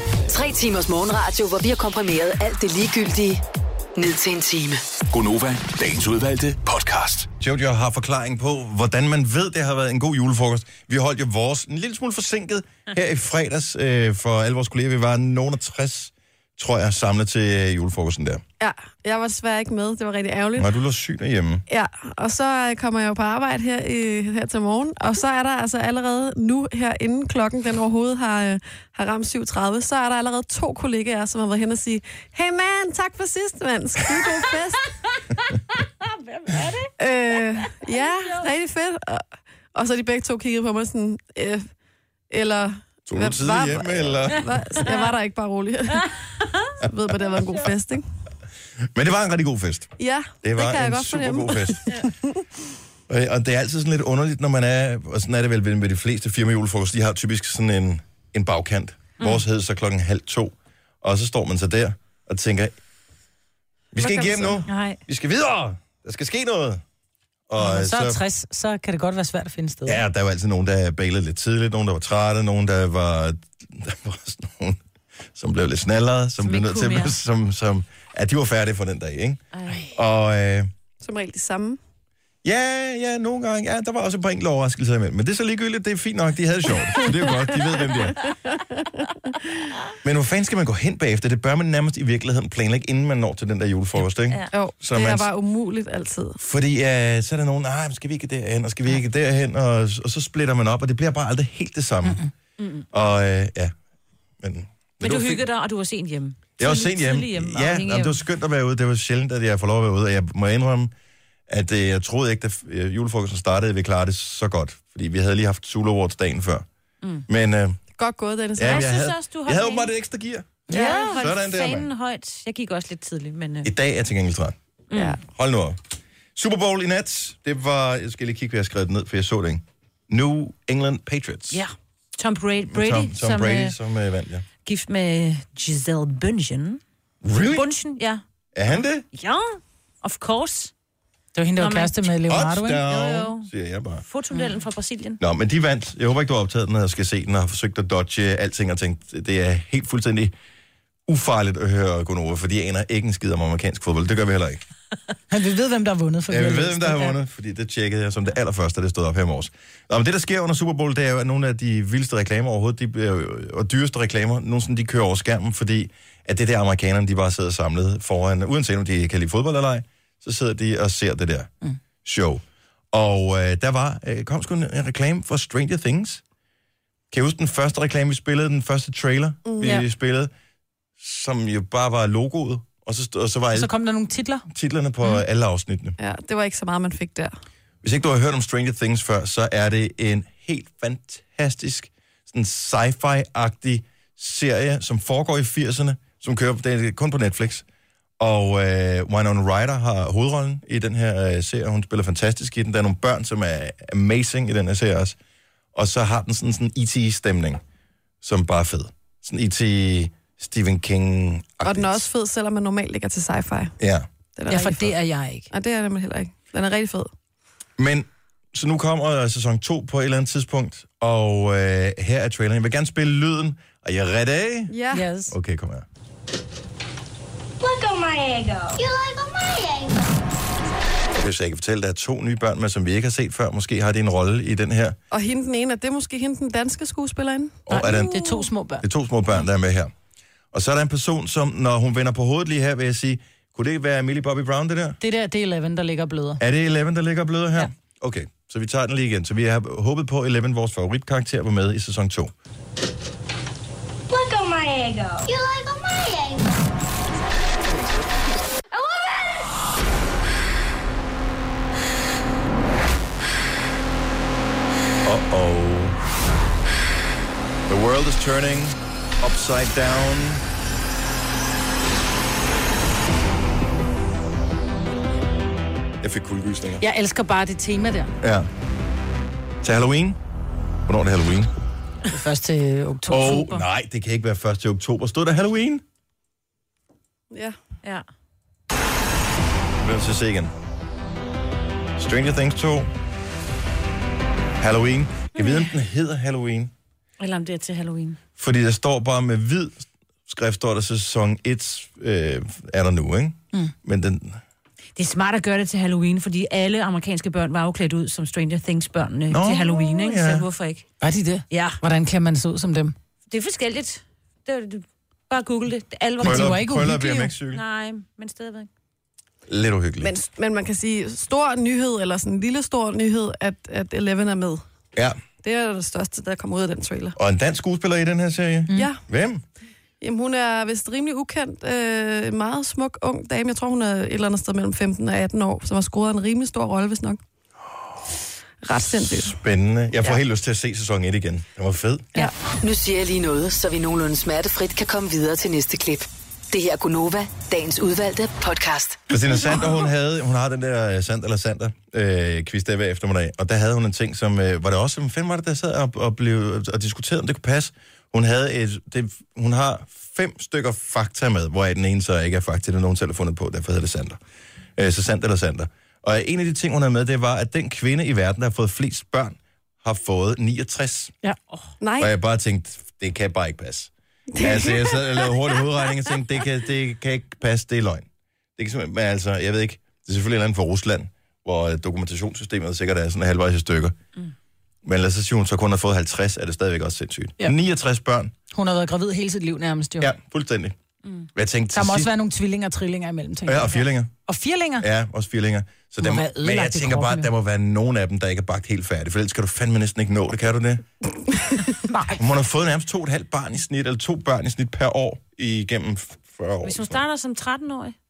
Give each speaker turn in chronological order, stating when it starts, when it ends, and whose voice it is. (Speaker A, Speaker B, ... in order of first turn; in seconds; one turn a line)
Speaker A: 0.3-3.4
Speaker A: 4.0-4.8
Speaker B: 5.1-7.3
Speaker C: 7.4-18.4
Speaker D: 18.6-20.7
Speaker C: 20.6-21.6
Speaker D: 21.7-34.9
Speaker E: 36.2-36.9
Speaker D: 37.0-41.6
Speaker E: 37.9-38.4
Speaker D: 42.3-46.1
Speaker C: 43.1-44.6
Speaker D: 46.8-48.0
Speaker C: 48.9-51.8
Speaker D: 50.0-52.4
Speaker C: 53.1-62.7
Speaker C: 63.9-66.8
Speaker E: 64.6-65.0
Speaker C: 67.5-68.2
Speaker F: 67.6-70.0
Speaker C: 69.8-74.8
Speaker C: 75.3-79.4
Speaker E: 76.4-77.1
Speaker E: 79.5-79.9
Speaker C: 79.9-80.7
Speaker D: 81.0-81.8
Speaker C: 82.4-88.2
Speaker D: 88.5-89.0
Speaker C: 90.0-95.3
Speaker D: 94.5-96.4
Speaker C: 96.4-102.2
Speaker F: 102.0-102.3
Speaker E: 102.6-102.8
Speaker C: 102.9-103.7
Speaker C: 104.4-105.4
Speaker E: 105.0-108.2
Speaker C: 106.6-110.9
Speaker C: 111.5-116.7
Speaker C: 117.3-117.8
Speaker D: 118.0-118.9
Speaker C: 118.6-121.9
Speaker E: 118.6-119.9
Speaker F: 120.7-121.2
Speaker E: 120.7-123.7
Speaker C: 123.6-124.5
Speaker E: 124.9-125.2
Speaker D: 124.9-125.2
Speaker C: 125.3-125.8
Speaker C: 126.3-131.6
Speaker E: 131.5-133.7
Speaker C: 132.7-134.4
Speaker E: 134.6-136.8
Speaker C: 137.2-137.7
Speaker E: 137.5-140.7
Speaker C: 138.5-139.1
Speaker F: 141.3-142.8
Speaker E: 141.6-142.1
Speaker C: 142.3-144.0
Speaker E: 142.8-143.5
Speaker E: 144.1-145.2
Speaker C: 145.2-150.3
Speaker C: 151.1-154.6
Speaker F: 155.3-157.2
Speaker C: 156.3-171.5
Speaker C: 172.0-176.2
Speaker C: 177.1-180.3
Speaker D: 179.4-179.8
Speaker C: 181.0-183.7
Speaker F: 183.5-184.4
Speaker C: 184.5-186.0
Speaker D: 186.0-187.3
Speaker C: 187.8-197.6
Speaker C: 198.2-205.2
Speaker C: 205.7-207.6
Speaker C: 208.2-212.0
Speaker D: 211.6-213.7
Speaker C: 213.8-214.1
Speaker D: 214.3-214.9
Speaker F: 214.5-215.5
Speaker D: 215.5-217.1
Speaker C: 217.8-224.8
Speaker D: 224.7-225.0
Speaker F: 224.9-225.3
Speaker C: 225.3-225.8
Speaker G: 227.6-230.2
Speaker C: 231.1-235.0
Speaker D: 235.1-237.6
Speaker C: 237.7-238.2
Speaker F: 237.7-238.8
Speaker C: 238.8-239.9
Speaker C: 240.5-245.0
Speaker F: 245.0-246.4
Speaker C: 246.4-252.3
Speaker G: 254.1-256.7
Speaker G: 258.7-259.4
Speaker C: 265.0-266.0
Speaker C: 267.7-270.4
Speaker C: 276.0-276.8
Speaker F: 276.8-278.1
Speaker C: 278.2-278.5
Speaker C: 279.6-280.2
Speaker C: 280.9-281.5
Speaker F: 282.1-283.6
Speaker C: 283.1-285.8
Speaker C: 289.8-290.5
Speaker C: 292.0-292.9
Speaker C: 294.6-296.7
Speaker E: 297.2-298.2
Speaker C: 298.4-304.4
Speaker E: 304.9-310.8
Speaker C: 309.3-310.4
Speaker F: 311.0-312.9
Speaker E: 311.5-311.8
Speaker E: 313.3-316.6
Speaker C: 316.2-317.6
Speaker F: 316.2-317.3
Speaker E: 317.5-318.7
Speaker C: 319.5-320.1
Speaker D: 320.0-324.6
Speaker D: 325.4-327.2
Speaker C: 327.2-329.4
Speaker D: 328.7-329.0
Speaker D: 330.0-337.2
Speaker D: 338.6-339.4
Speaker C: 339.1-342.2
Speaker A: 342.5-349.1
Speaker C: 349.1-364.2
Speaker C: 364.8-371.1
Speaker D: 371.8-372.1
Speaker C: 372.0-378.1
Speaker D: 374.3-375.0
Speaker C: 378.6-384.0
Speaker C: 384.8-388.3
Speaker F: 388.5-390.1
Speaker C: 390.0-390.8
Speaker C: 391.3-392.1
Speaker F: 391.7-394.9
Speaker C: 393.5-394.1
Speaker C: 394.8-400.9
Speaker F: 396.0-397.3
Speaker F: 401.9-402.2
Speaker C: 402.2-407.0
Speaker E: 406.6-407.9